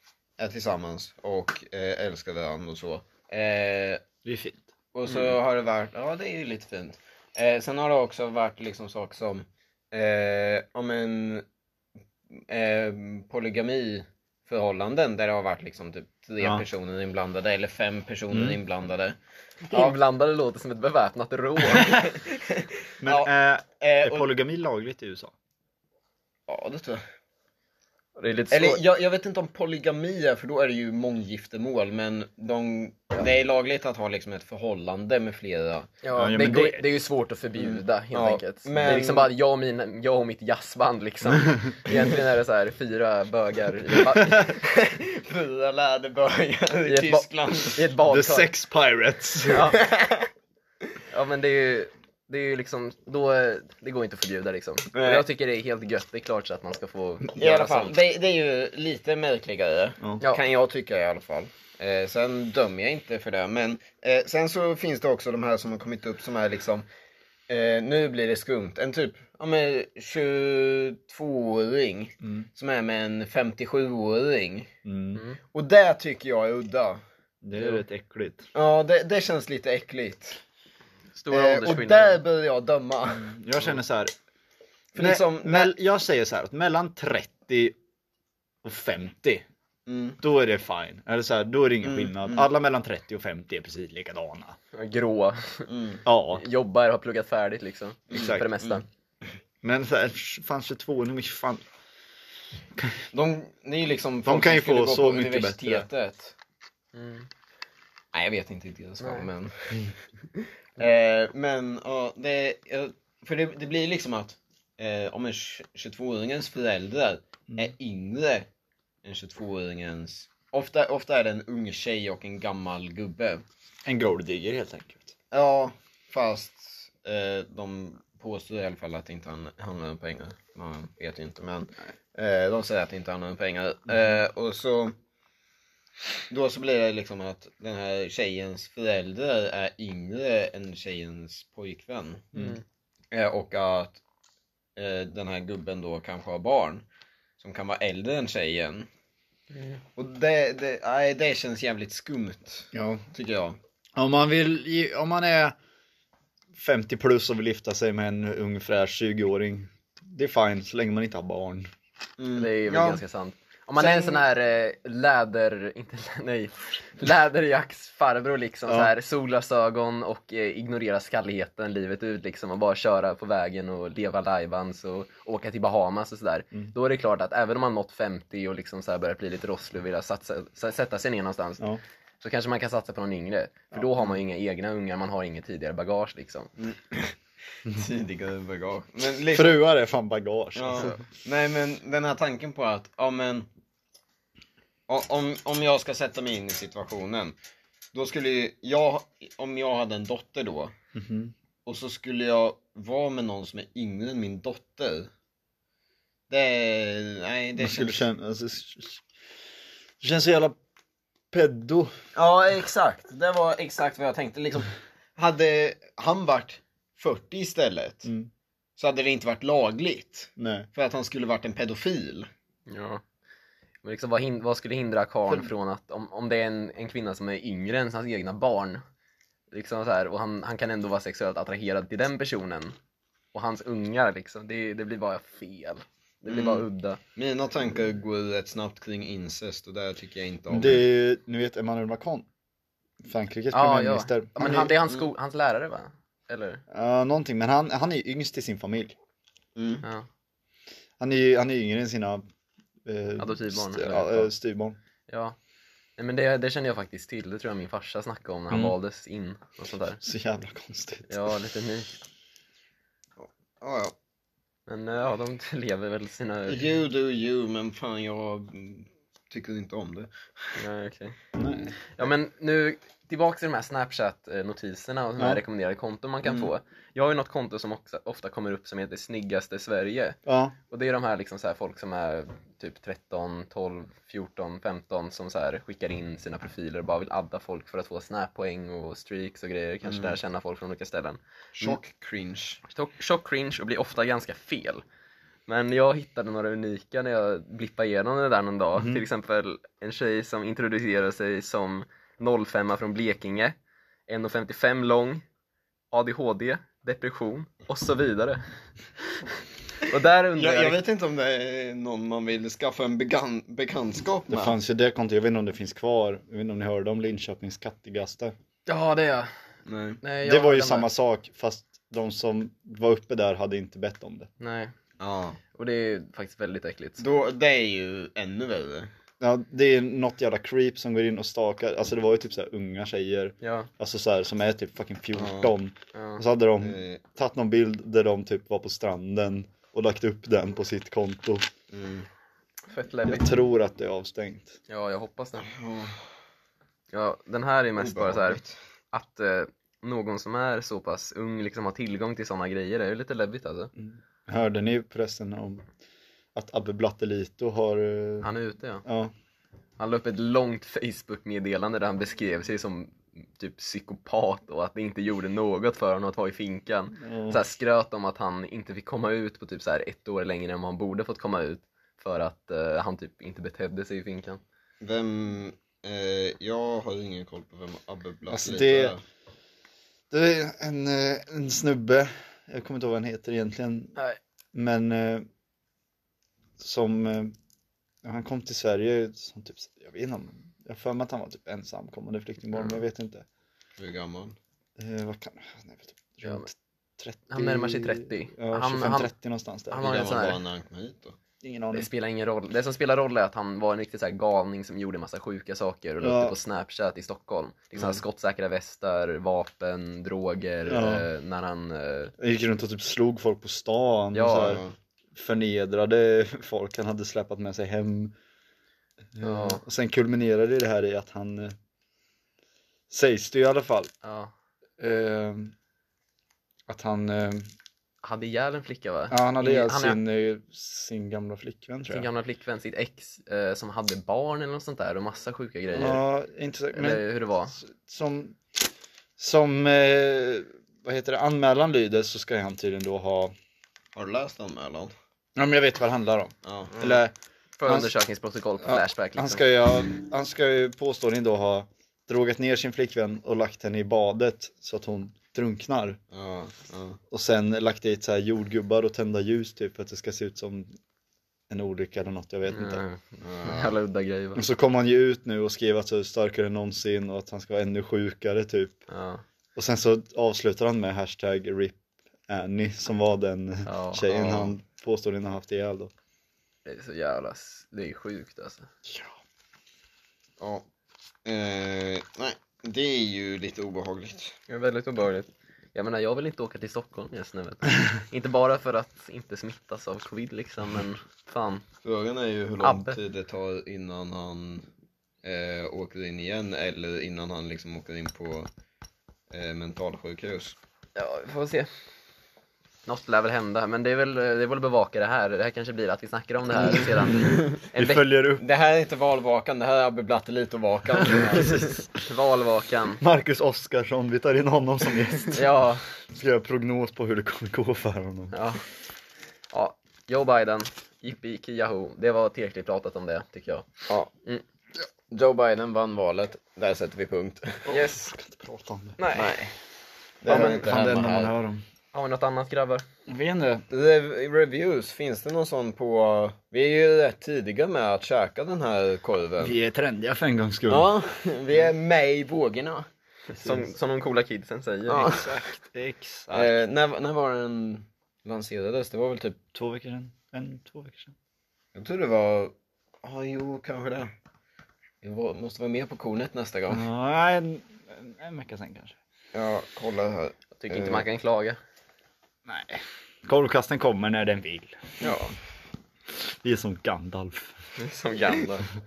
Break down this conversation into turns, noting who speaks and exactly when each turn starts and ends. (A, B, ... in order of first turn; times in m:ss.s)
0:00.4-0:04.0 A
0:04.2-0:04.7 B
0:04.9-0:11.4 A
0:05.1-0:05.3 C
0:12.3-0:19.2 A
0:18.3-0:18.6 B
0:19.7-0:22.2 C
0:19.7-0:20.0 A
0:22.3-0:24.3 A
0:23.0-0:25.3 B
0:26.5-0:27.0 A
0:28.2-0:28.8 C
0:28.5-0:35.9 A
0:36.0-0:44.6 C
0:36.2-0:36.8 B
0:37.6-0:39.3 A
0:44.6-0:47.8 A
0:46.9-0:48.5 C
0:48.1-0:49.6 B
0:49.5-0:49.8 C
0:49.7-0:50.3 A
0:51.1-0:58.0 C
0:54.9-0:55.2 A
0:57.4-1:06.9 A
1:07.5-1:14.7 A
1:12.2-1:12.5 B
1:14.8-1:15.2 B
1:15.5-1:17.0 A
1:17.4-1:18.4 B
1:18.6-1:20.4 A
1:21.2-1:22.2 C
1:21.3-1:23.3 A
1:23.1-1:24.1 B
1:24.9-1:25.7 A
1:25.0-1:27.8 B
1:28.6-1:29.5 B
1:29.9-1:30.2 A
1:30.2-1:34.6 B
1:31.8-1:32.5 A
1:34.7-1:35.7 C
1:35.7-1:36.0 A
1:36.0-1:36.4 B
1:36.3-1:38.8 C
1:38.1-1:38.4 B
1:38.1-1:38.8 A
1:39.6-1:41.6 B
1:43.1-1:46.3 A
1:44.2-1:45.9 B
1:46.9-1:47.3 C
1:48.1-1:49.9 A
1:49.0-1:49.3 C
1:50.8-1:58.5 A
1:59.0-2:03.4 A
2:03.9-2:05.1 B
2:05.3-2:15.0 A
2:16.3-2:22.4 A
2:22.4-2:22.6 C
2:23.1-2:24.0 A
2:24.8-2:26.8 A
2:27.4-2:28.9 A
2:29.5-2:29.8 C
2:30.0-2:33.6 A
2:32.7-2:33.0 B
2:34.0-2:35.6 B
2:36.6-2:41.7 B
2:42.2-2:43.0 A
2:42.4-3:01.6 C
2:43.8-2:44.2 A
3:02.2-3:06.5 C
3:06.6-3:07.1 A
3:07.6-3:09.6 A
3:09.3-3:11.0 B
3:10.6-3:13.5 A
3:14.9-3:17.4 A
3:17.9-3:20.7 A
3:21.0-3:21.3 B
3:21.7-3:25.1 A
3:26.3-3:28.0 A
3:27.6-3:29.0 B
3:30.0-3:30.6 B
3:31.3-3:31.9 B
3:32.2-3:38.1 A
3:38.8-3:42.3 A
3:40.4-3:40.7 B
3:42.7-3:43.0 C
3:43.8-3:48.8 C
3:49.5-3:52.8 C
3:53.3-3:57.0 C
3:56.3-3:56.6 A
3:57.2-4:00.8 A
4:00.5-4:02.3 B
4:03.0-4:04.8 B
4:03.5-4:06.6 C
4:06.7-4:09.0 B
4:09.6-4:09.8 A
4:11.0-4:12.3 B
4:12.8-4:14.8 B
4:13.2-4:14.3 C
4:15.1-4:15.4 C
4:16.0-4:20.0 C
4:20.0-4:21.1 B
4:21.1-4:21.9 C
4:23.2-4:23.9 A
4:24.7-4:26.6 C
4:26.5-4:30.6 A
4:30.6-4:31.2 C
4:31.4-4:31.8 B
4:31.8-4:40.2 C
4:36.2-4:36.5 A
4:40.3-4:40.6 B
4:40.7-4:51.8 C
4:49.8-4:50.2 A
4:51.6-4:52.6 A
4:52.7-4:54.8 C
4:55.5-5:03.6 C
4:58.8-4:59.0 B
5:04.1-5:05.2 C
5:05.9-5:08.4 C
5:09.8-5:10.8 C
5:10.4-5:14.6 A
5:14.3-5:18.3 B
5:18.7-5:19.3 C
5:19.7-5:20.0 A
5:20.0-5:20.9 C
5:20.2-5:24.3 B
5:24.4-5:24.7 C
5:25.0-5:25.4 A
5:25.5-5:27.0 C
5:27.0-5:28.9 A
5:29.2-5:41.5 B
5:33.4-5:33.7 C
5:35.2-5:35.5 A
5:35.9-5:36.2 C
5:36.6-5:37.0 A
5:41.7-5:42.1 A
5:42.7-5:43.3 C
5:43.1-5:44.6 B
5:44.7-5:45.5 C
5:45.5-5:46.0 A
5:46.9-5:48.4 C
5:47.8-5:48.6 A
5:48.9-5:53.7 C
5:53.8-5:55.7 B
5:56.4-5:58.3 B
5:58.2-5:58.8 C
5:58.9-5:59.1 B
5:59.8-6:14.4 C
6:07.0-6:07.4 B
6:14.8-6:19.0 A
6:18.3-6:19.0 B
6:20.1-6:24.0 B
6:24.5-6:25.3 B
6:26.6-6:27.4 B
6:28.0-6:33.2 B
6:33.8-6:34.4 A
6:34.8-6:39.9 B
6:36.2-6:36.5 C
6:37.3-6:39.1 C
6:39.7-6:40.4 C
6:39.8-6:41.2 A
6:41.4-6:41.9 B
6:41.7-6:52.1 C
6:46.0-6:46.4 B
6:47.8-6:48.0 A
6:50.7-6:51.1 B
6:52.2-6:54.6 B
6:54.1-6:54.6 C
6:54.4-6:54.7 A
6:55.2-6:58.2 B
6:59.2-7:01.6 B
6:59.2-6:59.6 C
7:02.9-7:03.9 B
7:04.0-7:04.3 C
7:04.8-7:05.5 B
7:06.7-7:07.5 B
7:08.0-7:10.0 C
7:09.1-7:12.1 B
7:11.9-7:16.0 C
7:15.8-7:18.4 B
7:16.7-7:17.6 C
7:19.2-7:23.4 B
7:24.0-7:24.9 A
7:25.4-7:27.1 B
7:26.4-7:26.8 A
7:27.6-7:29.4 C
7:27.6-7:27.9 B
7:28.6-7:36.0 B
7:36.1-7:37.0 A
7:37.1-7:40.8 B
7:41.5-7:42.8 B
7:42.5-7:44.4 C
7:43.2-7:43.7 A
7:44.4-7:48.8 B
7:48.9-7:49.2 C
7:49.6-7:55.9 B
7:53.7-7:54.5 C
7:56.6-7:58.7 C
7:58.9-7:59.1 B
8:00.4-8:00.6 A
8:01.2-8:04.4 A
8:04.5-8:11.6 C
8:11.8-8:14.7 A
8:12.6-8:13.0 C
8:15.2-8:18.5 A
8:19.3-8:20.6 A
8:21.0-8:21.7 C
8:22.9-8:28.0 C
8:27.2-8:28.4 B
8:28.4-8:31.8 A
8:31.3-8:33.0 C
8:33.0-8:35.4 B
8:35.3-8:35.8 C
8:36.1-8:38.3 B
8:38.3-8:38.6 C
8:39.5-8:43.7 C
8:45.1-8:47.7 A
8:47.7-8:49.5 B
8:47.7-8:48.1 C
8:49.0-8:49.4 C
8:50.2-8:51.3 A
8:50.3-8:51.6 B
8:50.3-8:50.9 C
8:51.9-8:52.8 C
8:53.1-8:53.6 B
8:53.7-8:59.6 A
8:59.4-9:00.9 B
9:00.7-9:02.9 A
9:03.3-9:05.1 C
9:04.9-9:05.3 A
9:05.1-9:06.5 B
9:06.3-9:09.4 A
9:09.5-9:11.1 B
9:11.8-9:12.5 A
9:13.0-9:14.1 A
9:15.0-9:16.8 A
9:16.7-9:19.0 B
9:19.3-9:21.1 A
9:20.6-9:21.6 C
9:22.5-9:25.0 B
9:25.0-9:25.3 A
9:26.4-9:27.5 B
9:27.8-9:28.7 C